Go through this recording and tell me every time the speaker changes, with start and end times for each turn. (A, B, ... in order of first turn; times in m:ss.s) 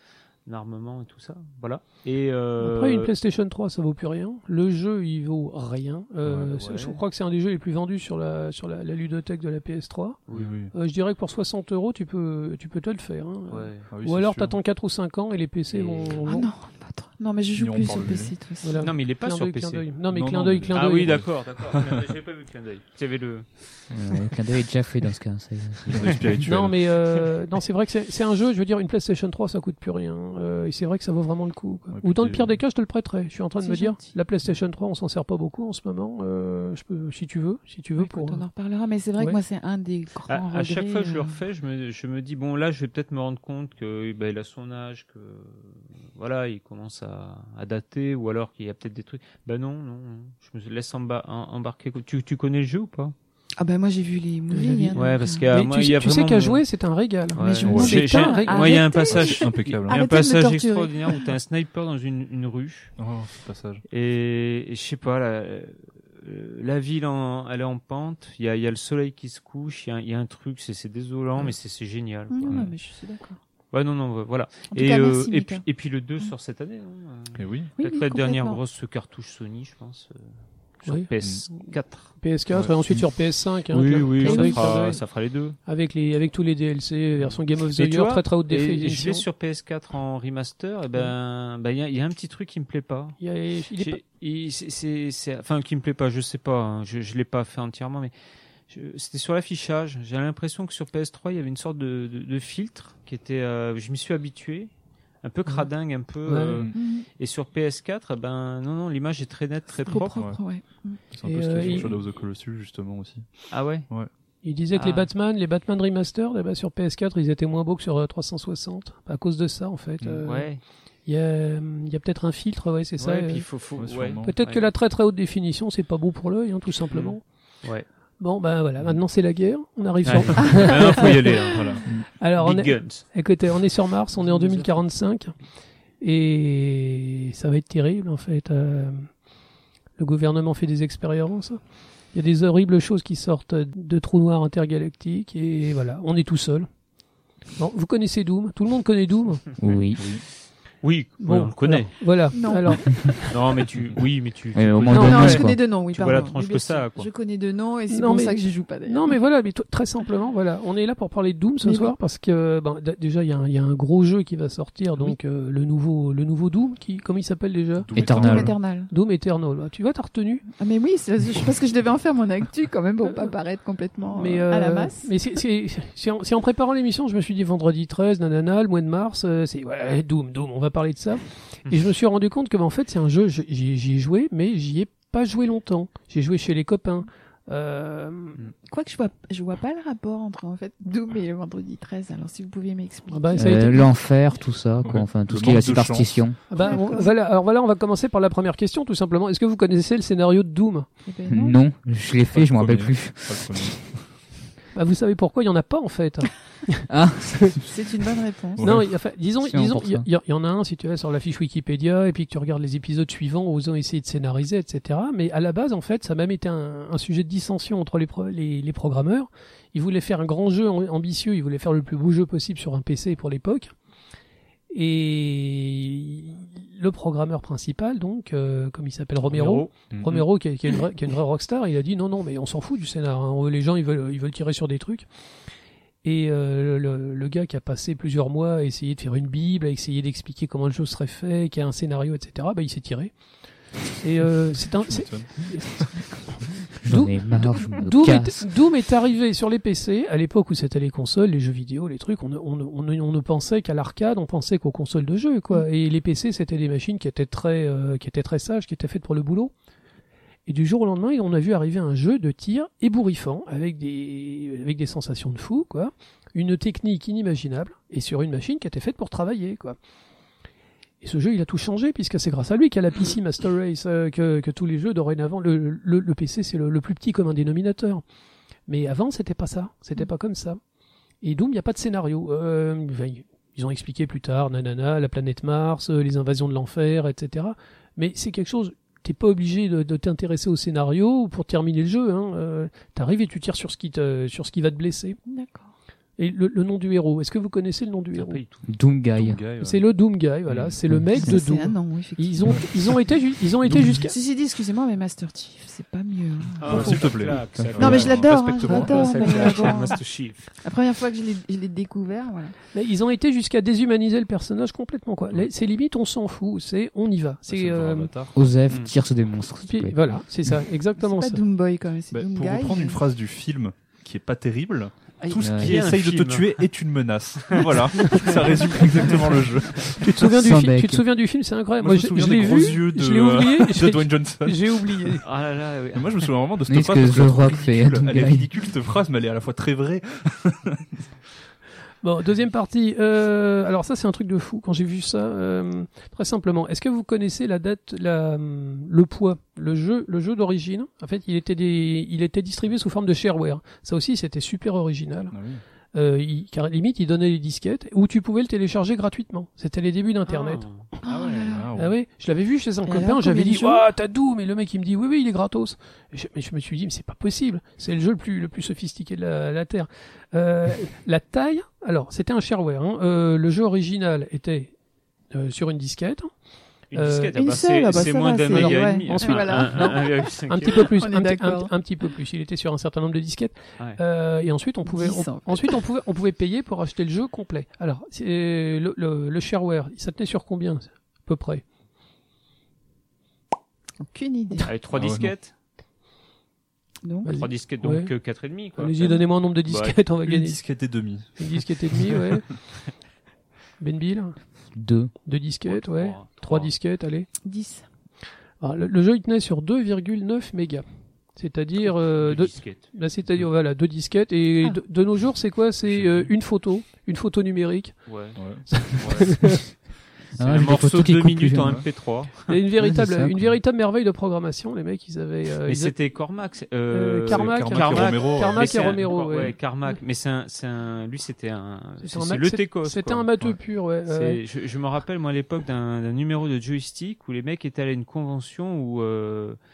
0:00.4-0:03.1 A
0:02.6-0:10.2 B
0:06.2-0:06.6 C
0:06.5-0:07.0 A
0:10.3-0:10.5 A
0:10.3-0:10.7 C
0:10.7-0:16.5 B
0:13.5-0:13.9 A
0:13.9-0:14.6 C
0:15.7-0:16.2 A
0:16.2-0:18.8 D
0:17.5-0:18.3 C
0:18.6-0:21.2 B
0:18.8-0:19.9 A
0:20.1-0:22.1 C
0:20.7-0:23.6 A
0:23.9-0:26.4 E
0:25.9-0:26.8 C
0:26.4-0:38.4 B
0:31.9-0:32.6 C
0:33.6-0:34.2 D
0:38.0-0:41.4 D
0:40.3-0:53.1 A
0:53.6-0:55.5 D
0:54.5-0:55.0 B
0:54.9-0:56.6 A
0:55.5-0:58.9 B
0:57.3-1:02.9 A
0:57.4-1:01.3 D
0:57.6-0:58.0 C
0:59.0-1:00.0 C
1:03.0-1:03.8 C
1:03.9-1:12.6 A
1:12.3-1:13.4 D
1:12.4-1:12.7 C
1:13.7-1:22.1 A
1:14.7-1:15.6 D
1:17.3-1:17.7 C
1:17.8-1:18.6 D
1:21.2-1:21.4 C
1:22.2-1:25.0 B
1:22.5-1:23.0 C
1:23.7-1:25.6 A
1:24.2-1:24.8 D
1:25.6-1:29.2 B
1:27.7-1:33.2 A
1:33.2-1:34.0 B
1:33.7-1:38.1 A
1:38.7-1:44.7 A
1:45.2-1:50.2 A
1:46.2-1:46.6 B
1:46.7-1:47.0 D
1:49.8-1:51.0 D
1:50.1-1:50.4 C
1:51.1-1:54.1 C
1:51.2-1:51.9 B
1:53.5-1:53.9 A
1:54.4-2:00.5 B
1:54.7-1:55.1 A
2:00.2-2:00.6 A
2:01.0-2:03.4 B
2:03.0-2:04.7 A
2:03.8-2:04.3 C
2:04.2-2:07.2 B
2:06.9-2:07.8 A
2:08.2-2:11.5 B
2:10.0-2:11.7 A
2:10.2-2:12.0 C
2:12.2-2:15.3 B
2:12.4-2:13.0 A
2:14.1-2:14.8 A
2:16.0-2:19.1 B
2:20.0-2:21.6 B
2:22.1-2:26.7 B
2:27.6-2:29.4 B
2:29.6-2:30.0 E
2:30.0-2:30.2 C
2:30.8-2:32.0 A
2:31.2-2:33.4 B
2:32.3-2:33.1 D
2:33.3-2:37.1 A
2:34.5-2:35.6 E
2:34.9-2:35.3 B
2:34.9-2:39.2 D
2:37.9-2:47.9 B
2:41.6-2:41.9 D
2:47.8-2:48.5 C
2:47.9-2:48.5 E
2:48.0-2:48.9 D
2:48.9-2:50.4 B
2:50.5-2:55.1 D
2:54.1-3:08.4 B
3:08.7-3:13.9 D
3:13.1-3:13.9 B
3:13.4-3:16.4 E
3:14.8-3:16.3 C
3:16.5-3:20.9 B
3:16.6-3:17.1 D
3:21.0-3:21.6 D
3:21.3-3:23.4 E
3:22.3-3:24.0 C
3:24.7-3:26.9 B
3:26.9-3:27.6 E
3:27.7-3:28.7 D
3:28.6-3:28.8 C
3:28.6-3:43.7 B
3:29.4-3:30.0 E
3:44.7-3:55.1 B
3:49.3-3:49.7 A
3:49.9-3:50.2 C
3:56.0-4:03.1 B
4:04.0-4:05.8 B
4:04.8-4:05.9 C
4:06.8-4:08.5 E
4:06.9-4:19.5 B
4:20.5-4:29.8 B
4:31.0-4:38.0 B
4:38.7-4:40.6 B
4:41.2-4:55.2 B
4:55.2-4:55.7 D
4:56.2-4:58.4 B
4:58.1-4:58.6 A
4:58.6-4:59.4 E
4:59.1-4:59.8 C
4:59.6-5:04.1 B
5:00.5-5:00.8 C
5:00.9-5:01.4 E
5:01.2-5:02.9 D
5:03.7-5:04.0 C
5:04.0-5:07.1 D
5:06.6-5:09.9 C
5:06.6-5:10.5 A
5:07.5-5:08.0 E
5:07.8-5:10.0 D
5:10.6-5:12.5 D
5:12.7-5:18.1 B
5:17.5-5:18.3 C
5:18.3-5:20.0 E
5:18.7-5:18.9 A
5:19.7-5:21.4 B
5:21.0-5:23.0 D
5:22.1-5:30.2 C
5:25.2-5:26.6 A
5:25.4-5:25.9 E
5:27.4-5:29.1 A
5:29.9-5:35.2 B
5:30.2-5:31.0 E
5:31.8-5:35.2 C
5:35.2-5:36.3 A
5:35.9-5:41.0 C
5:36.7-5:38.5 E
5:42.0-5:55.4 B
5:55.3-5:55.6 C
5:55.9-6:00.6 B
6:00.3-6:01.6 A
6:01.0-6:01.7 D
6:01.5-6:01.9 C
6:01.7-6:14.7 B
6:02.8-6:03.8 D
6:15.3-6:16.3 B
6:16.9-6:20.9 A
6:16.9-6:17.4 B
6:17.3-6:21.7 D
6:18.5-6:31.6 B
6:24.8-6:25.8 D
6:34.0-6:34.8 D
6:34.6-6:35.5 A
6:34.9-6:35.3 C
6:37.0-6:37.4 D
6:37.2-6:38.1 B
6:37.3-6:40.0 A
6:38.8-6:40.6 B
6:40.2-6:41.4 C
6:41.4-6:42.4 B
6:43.8-6:44.4 B
6:44.7-6:45.1 E
6:45.2-6:47.3 B
6:45.7-6:46.7 A
6:47.4-6:47.8 D
6:48.6-6:50.8 B
6:51.4-6:58.0 B
6:52.2-6:52.8 A
6:55.8-6:56.3 C
6:58.0-6:59.5 A
6:58.4-6:59.5 C
6:58.7-6:59.6 B
7:00.4-7:01.8 E
7:00.4-7:02.5 A
7:01.6-7:01.8 C
7:02.5-7:06.0 B
7:02.8-7:03.4 E
7:05.6-7:13.3 A
7:06.9-7:09.6 B
7:07.3-7:09.1 C
7:12.0-7:14.4 B
7:14.0-7:19.6 A